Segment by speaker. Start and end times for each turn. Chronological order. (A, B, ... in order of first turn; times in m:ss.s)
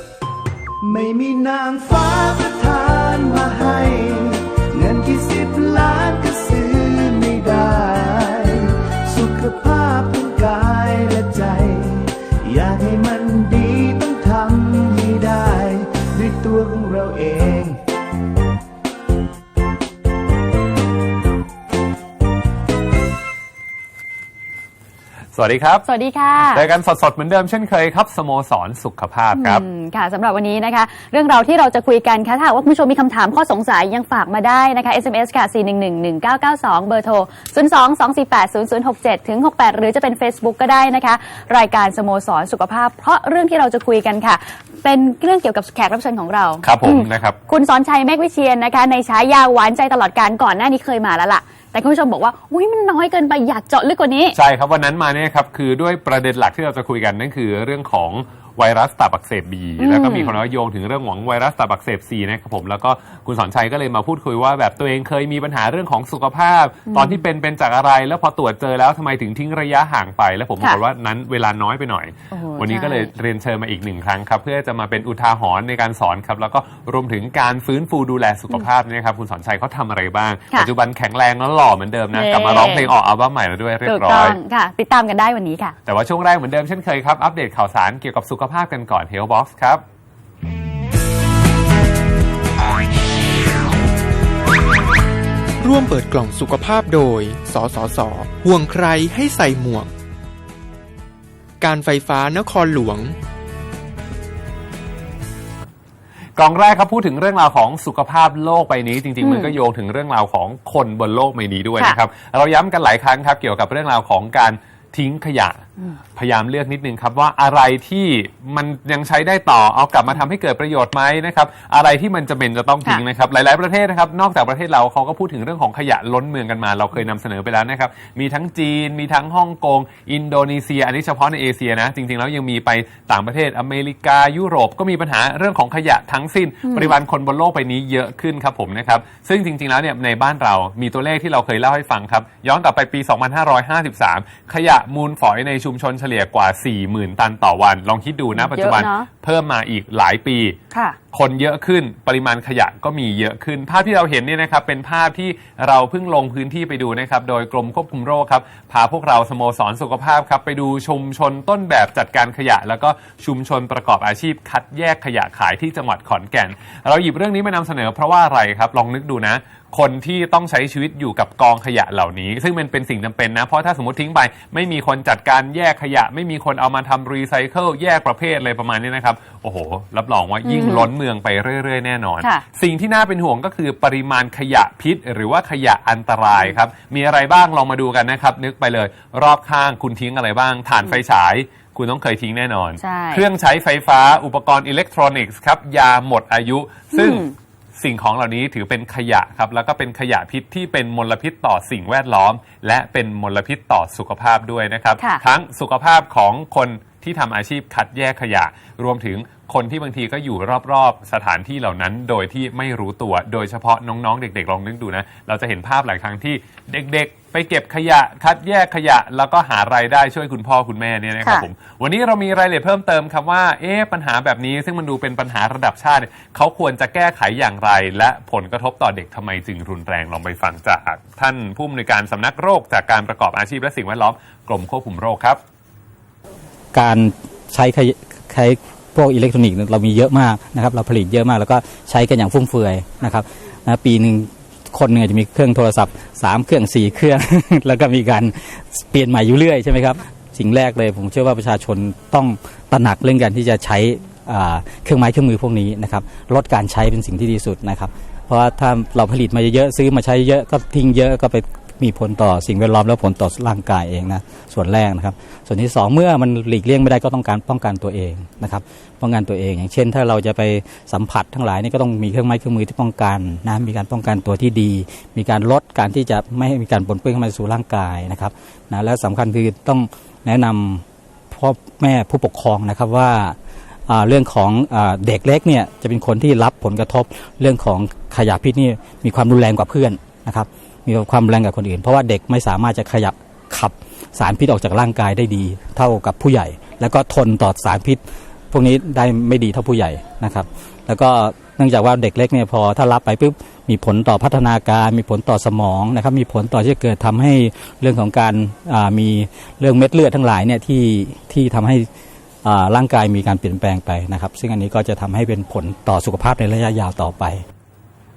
0:00.8-0:17.8 A
0:25.3-0:25.8 B
0:25.8-0:26.7 C
0:26.5-0:29.6 B
0:29.3-0:54.4 C
0:46.6-0:47.4 B
0:54.3-1:24.4 B
0:59.8-1:00.4 C
1:06.9-1:07.2 C
1:12.3-1:13.1 C
1:22.1-1:22.9 C
1:23.8-1:25.8 C
1:25.8-1:29.8 B
1:35.6-1:39.9 D
1:41.6-1:43.1 D
1:46.4-1:55.6 B
1:49.2-1:49.5 C
1:56.1-2:30.6 B
2:28.3-2:29.1 C
2:30.7-2:31.0 C
2:31.1-3:55.4 B
3:00.4-3:00.9 C
3:12.8-3:13.2 C
3:16.9-3:17.3 C
3:56.7-5:11.9 E
5:12.4-5:17.4 E